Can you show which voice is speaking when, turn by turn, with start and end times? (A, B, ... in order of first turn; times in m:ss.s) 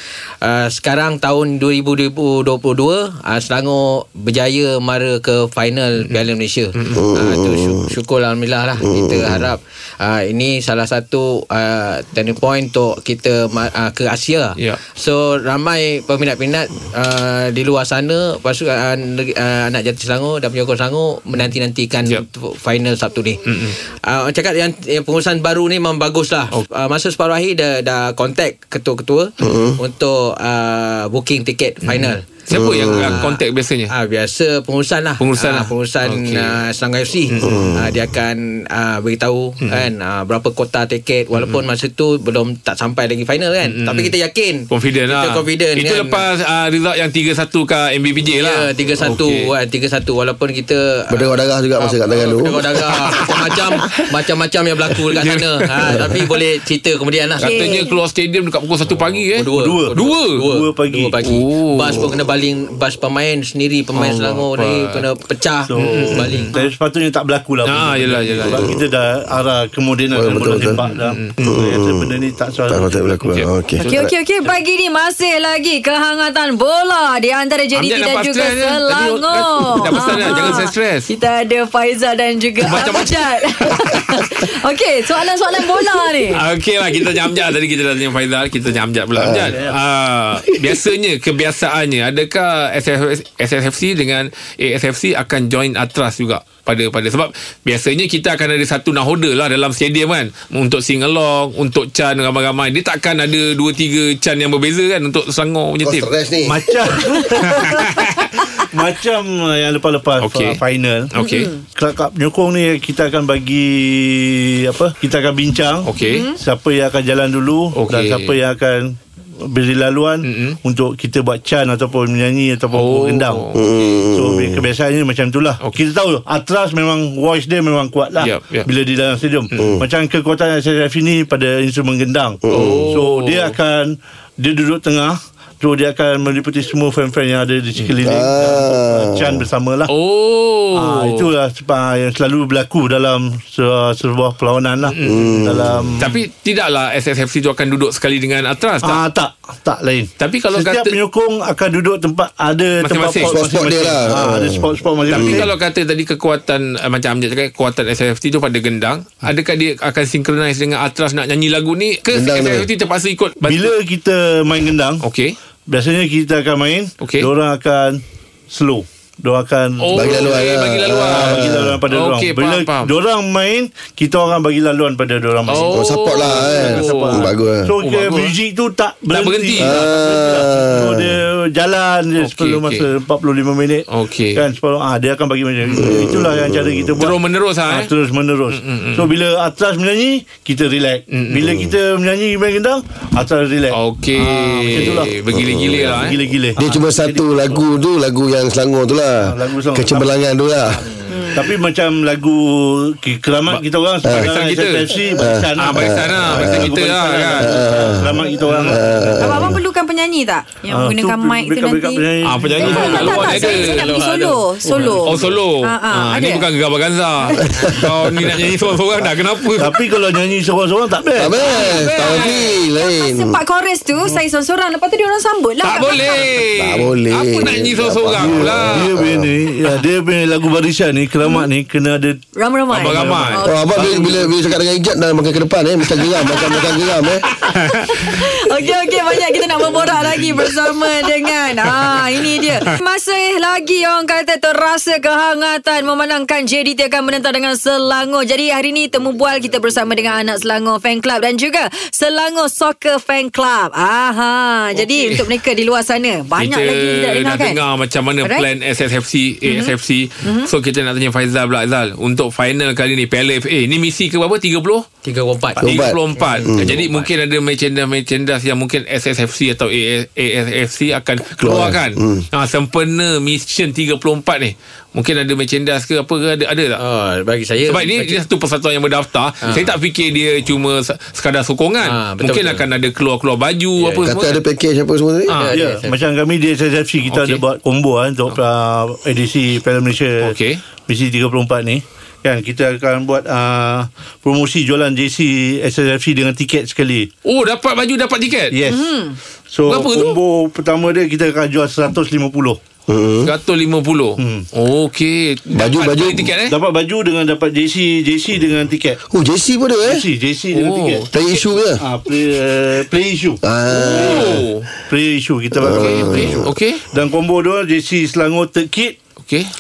0:00.4-0:46.3 A
0:06.8-0:07.1 B
0:06.9-0:07.9 C
0:08.8-0:09.5 C
0:23.4-0:23.8 B
0:29.4-0:29.8 C
0:31.8-0:33.9 B
0:32.5-0:33.2 C
0:35.2-0:36.6 B
0:37.3-0:37.8 B
0:37.4-0:37.8 C
0:41.4-0:41.6 B
0:43.6-0:44.1 B
0:44.7-0:49.5 B
0:48.3-0:57.8 A
0:51.1-0:52.9 C
0:53.1-0:54.0 B
0:55.1-0:56.3 B
0:57.4-0:58.0 D
0:57.4-1:00.4 B
0:59.3-1:06.6 A
0:59.5-1:01.2 E
1:01.2-1:02.1 B
1:04.0-1:05.1 B
1:05.7-1:13.0 E
1:05.8-1:06.6 B
1:07.6-1:08.8 B
1:10.1-1:10.8 C
1:10.8-1:11.6 B
1:11.4-1:12.1 C
1:12.7-1:14.1 C
1:13.8-1:26.4 D
1:17.8-1:21.1 B
1:22.6-1:24.2 B
1:26.3-1:46.1 B
1:29.2-1:29.6 C
1:29.5-1:29.8 E
1:45.8-1:46.6 C
1:46.4-1:47.9 E
1:47.4-1:48.3 B
1:48.6-1:51.1 E
1:50.2-1:50.6 B
1:51.1-1:51.5 B
1:51.2-1:51.6 D
1:51.7-2:03.5 E
1:55.8-1:56.3 B
1:56.0-1:56.4 D
1:57.8-1:58.4 B
2:00.2-2:00.6 B
2:02.7-2:03.6 B
2:03.5-2:04.6 C
2:04.1-2:19.9 E
2:08.2-2:08.7 B
2:09.6-2:09.8 C
2:12.5-2:12.9 C
2:12.5-2:13.6 B
2:18.0-2:19.4 C
2:19.9-2:21.3 B
2:20.7-2:26.2 E
2:24.8-2:25.3 B
2:25.0-2:25.9 C
2:26.0-2:29.0 B
2:28.8-2:35.5 E
2:30.2-2:31.0 B
2:32.8-2:33.4 B
2:33.2-2:35.5 C
2:35.1-2:43.7 B
2:42.1-2:42.7 C
2:43.4-2:45.0 E
2:45.0-2:45.4 B
2:45.7-2:50.4 E
2:47.0-2:47.3 B
2:49.8-2:52.9 B
2:49.9-2:51.8 C
2:51.0-3:15.2 E
2:55.5-2:58.4 B
2:55.6-2:57.7 C
2:59.1-2:59.9 B
2:59.6-3:01.1 C
3:02.2-3:02.9 B
3:03.9-3:04.4 B
3:05.6-3:06.0 B
3:05.8-3:07.0 C
3:07.0-3:07.9 B
3:08.5-3:09.1 B
3:11.1-3:11.6 B
3:13.7-3:16.2 B
3:15.3-3:16.0 C
3:15.9-3:17.6 E
3:16.6-3:20.8 C
3:19.2-3:20.2 E
3:21.1-3:21.4 D
3:21.3-3:29.3 E
3:23.5-3:25.0 B
3:25.2-3:26.7 C
3:25.6-3:27.9 B
3:27.4-3:29.6 C
3:28.4-3:29.1 B
3:29.2-3:32.0 D
3:30.7-3:33.4 E
3:32.2-3:33.9 B
3:32.6-3:36.5 D
3:32.7-3:34.5 A
3:34.6-3:35.3 E
3:35.0-3:39.8 B
3:37.6-3:38.4 C
3:39.6-3:41.4 E
3:41.2-3:43.4 C
3:41.5-3:42.5 B
3:41.6-3:46.3 D
3:45.6-3:49.0 B
3:46.6-3:49.3 C
3:48.2-3:52.2 E
3:52.4-3:53.8 D
3:52.7-3:53.4 B
3:52.8-3:54.1 E
3:53.4-3:57.3 C
3:57.4-3:58.2 B
3:57.5-4:17.6 D
4:14.8-4:15.3 B
4:16.4-4:24.9 B
4:19.4-4:20.5 D
4:25.0-4:27.1 A
4:25.6-4:26.8 C
4:25.6-4:36.8 B
4:31.4-4:32.3 C
4:36.8-4:38.2 A
4:37.7-4:44.4 B
4:39.4-4:39.8 A
4:41.8-4:42.6 A
4:43.8-4:44.1 A
4:44.0-4:45.4 C
4:45.3-4:45.5 B
4:45.3-4:46.0 A
4:45.5-4:50.4 E
4:47.1-4:47.4 B
4:50.2-4:50.6 B
4:50.9-4:57.1 E
4:57.2-4:58.6 B
4:58.5-4:58.9 E
4:58.7-4:59.2 D
4:59.5-5:02.6 E
4:59.7-5:00.2 B
5:02.9-5:03.3 C
5:03.2-5:06.6 B
5:04.2-5:04.5 E
5:05.5-5:06.3 C
5:06.4-5:09.0 E
5:09.1-5:10.0 C
5:09.8-5:11.1 E
5:10.5-5:11.1 B
5:11.1-5:11.8 C
5:11.8-5:19.0 E
5:13.4-5:14.5 C
5:13.7-5:14.7 B
5:15.6-5:16.5 C
5:15.7-5:16.8 B